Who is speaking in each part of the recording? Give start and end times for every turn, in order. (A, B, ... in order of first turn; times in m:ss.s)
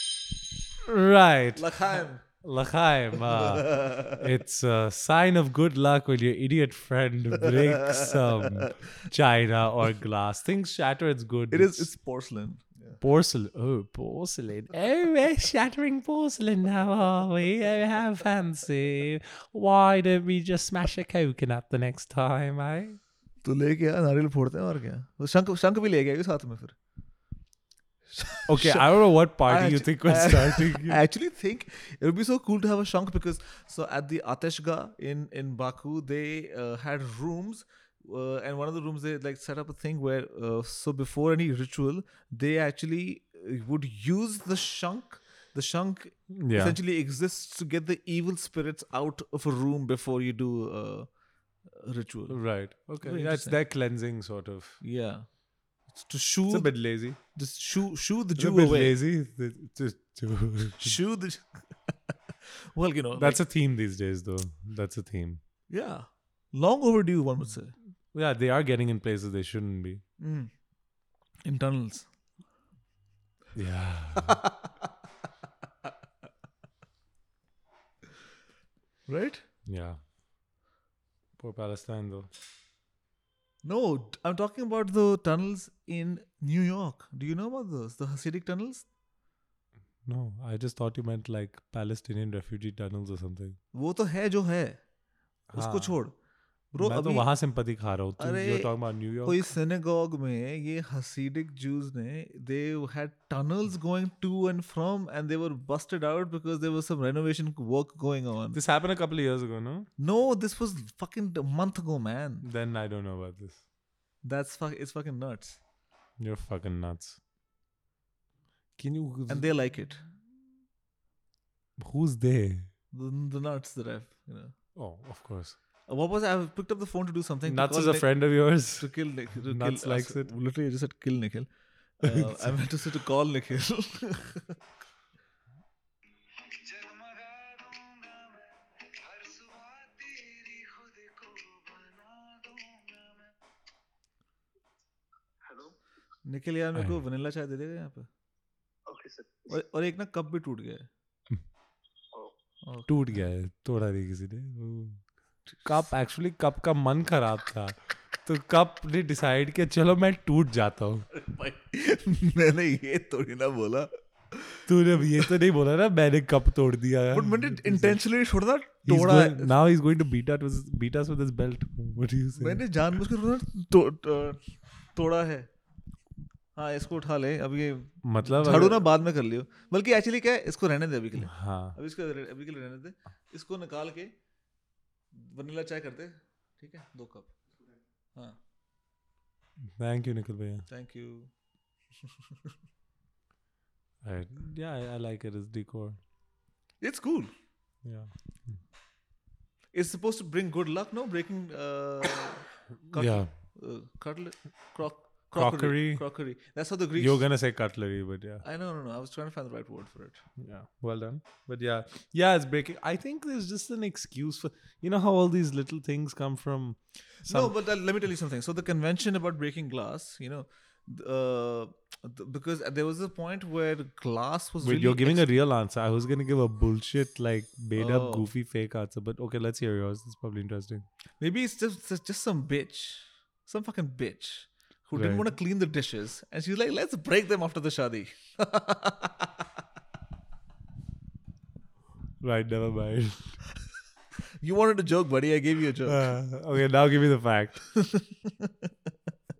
0:00.8-0:11.9 A
0:01.5-0:02.2 B
0:03.3-0:04.2 B
0:11.5-0:13.0 B
0:13.0-0:23.0 A
0:23.4-0:26.8 B
0:28.1-0:51.1 B
0:28.5-0:31.0 A
0:46.3-0:46.8 A
0:51.6-0:53.6 B
0:52.3-0:54.8 A
0:54.8-0:55.3 B
0:55.9-0:59.0 B
0:56.5-0:57.2 A
0:58.4-1:01.0 A
1:00.8-1:01.9 B
1:02.5-1:03.4 B
1:03.2-1:05.4 A
1:05.7-1:07.8 B
1:08.1-1:10.0 A
1:10.2-1:10.5 B
1:11.4-1:12.1 B
1:13.5-1:14.4 A
1:14.2-1:14.7 B
1:19.1-1:19.4 B
1:19.6-1:20.0 A
1:21.4-1:22.3 A
1:23.6-1:28.9 B
1:30.0-1:33.6 A
1:33.7-1:34.8 B
1:35.5-1:36.0 A
1:35.5-1:36.1 B
1:36.7-1:37.3 B
1:36.8-1:39.5 A
1:38.2-1:48.6 B
1:48.5-1:49.9 A
1:50.0-1:52.4 B
1:52.4-1:53.6 A
1:54.2-1:55.6 B
1:56.2-1:57.2 A
1:58.8-1:59.5 A
1:59.3-2:00.0 B
2:01.8-2:02.7 A
2:02.9-2:04.5 B
2:04.7-2:05.6 A
2:05.9-2:14.6 B
2:07.4-2:10.3 A
2:12.0-2:12.9 A
2:16.3-2:23.3 C
2:25.4-2:25.7 C
2:26.2-2:28.1 B
2:26.7-2:27.0 A
2:28.9-2:29.6 C
2:29.5-2:30.9 B
2:32.6-2:32.9 B
2:32.9-2:35.0 A
2:35.5-2:35.8 B
2:35.6-2:41.1 A
2:41.1-2:44.6 B
2:44.7-2:48.0 A
2:47.1-2:49.5 B
2:48.8-2:52.6 A
2:52.4-2:55.5 B
2:56.5-3:04.1 B
2:58.0-2:58.8 A
3:01.2-3:01.8 A
3:05.1-3:07.3 B
3:09.6-3:10.7 A
3:10.7-3:11.3 B
3:14.0-3:16.0 A
3:16.8-3:17.3 B
3:17.8-3:18.6 A
3:19.7-3:27.3 B
3:22.9-3:23.3 A
3:25.3-3:26.0 A
3:27.0-3:28.4 A
3:28.4-3:30.2 B
3:30.4-3:37.5 A
3:37.2-3:45.2 B
3:44.6-3:50.8 A
3:47.8-3:48.3 B
3:51.2-3:59.3 B
3:54.9-3:55.3 A
4:02.2-4:03.4 A
4:04.4-4:06.2 B
4:05.8-4:07.6 A
4:07.7-4:08.5 B